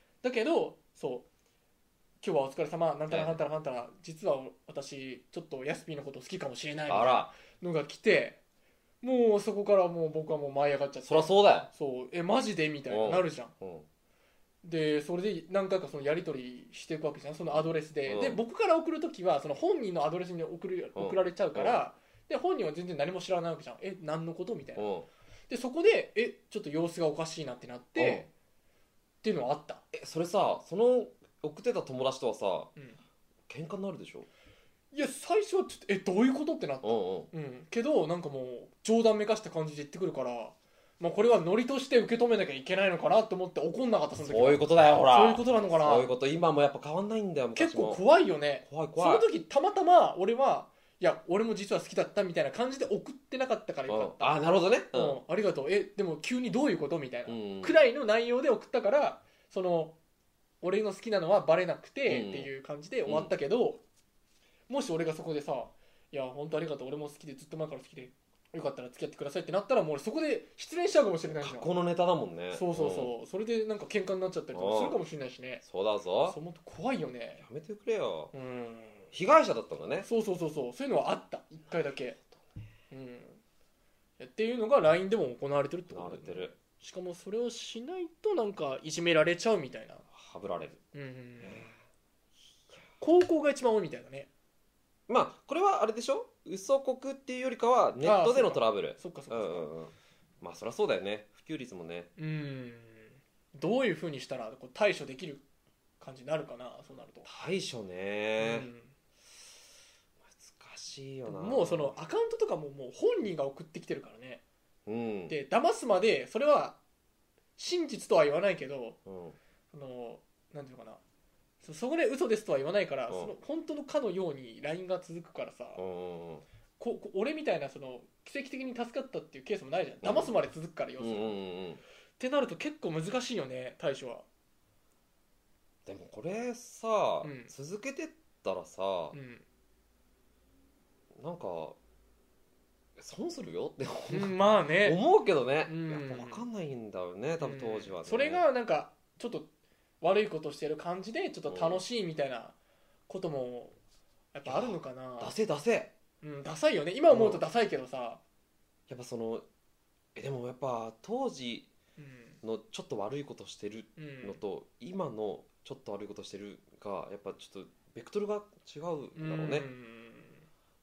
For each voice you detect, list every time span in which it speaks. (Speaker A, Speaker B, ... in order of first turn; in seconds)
Speaker A: 0.2-1.3, 2.2-8.4, 9.0-13.5, 14.6-24.9, 25.5-28.3, 29.2-29.8, 34.9-46.1, 47.5-54.3, 54.9-60.0, 60.6-63.8, 64.7-71.7, 72.5-75.6, 76.3-77.4, 78.3-79.1, 80.0-82.2, 82.9-83.4, 84.2-90.0, 90.9-91.7, 93.0-94.3, 98.0-99.7, 102.2-105.4, 106.0-107.3, 108.4-108.9, 111.3-114.4, 115.3-116.8, 117.6-119.0, 119.7-121.0, 121.6-125.8, 126.8-131.4, 132.2-134.3, 137.2-137.5, 139.1-139.4, 144.1-145.0, 145.7-146.4, 147.4-149.5, 150.0-152.6, 153.1-153.8, 154.3-155.3, 156.2-158.2, 162.0-162.4, 164.0-164.4, 169.2-170.5
Speaker B: 3.1-3.4, 6.9-7.3, 11.1-11.7, 12.9-13.9, 17.5-18.4, 20.9-21.8, 24.8-25.1, 28.0-28.3, 29.9-32.7, 33.5-34.3, 36.8-37.3, 44.2-48.0, 48.6-49.3, 53.9-55.2, 57.3-57.8, 62.1-62.5, 63.1-63.3, 71.3-73.1, 74.5-75.0, 75.6-76.4, 77.4-78.3, 79.1-80.1, 85.9-86.6, 90.1-90.8, 91.4-91.7, 95.1-102.1, 107.2-108.7, 110.3-112.0, 114.9-115.3, 119.1-119.4, 125.8-126.4, 130.0-130.3, 131.0-131.8, 135.9-139.2, 141.2-141.8, 143.0-148.4, 151.5-151.8, 154.5-155.9, 157.1-157.4, 158.9-159.4, 160.2-161.7, 162.4-169.7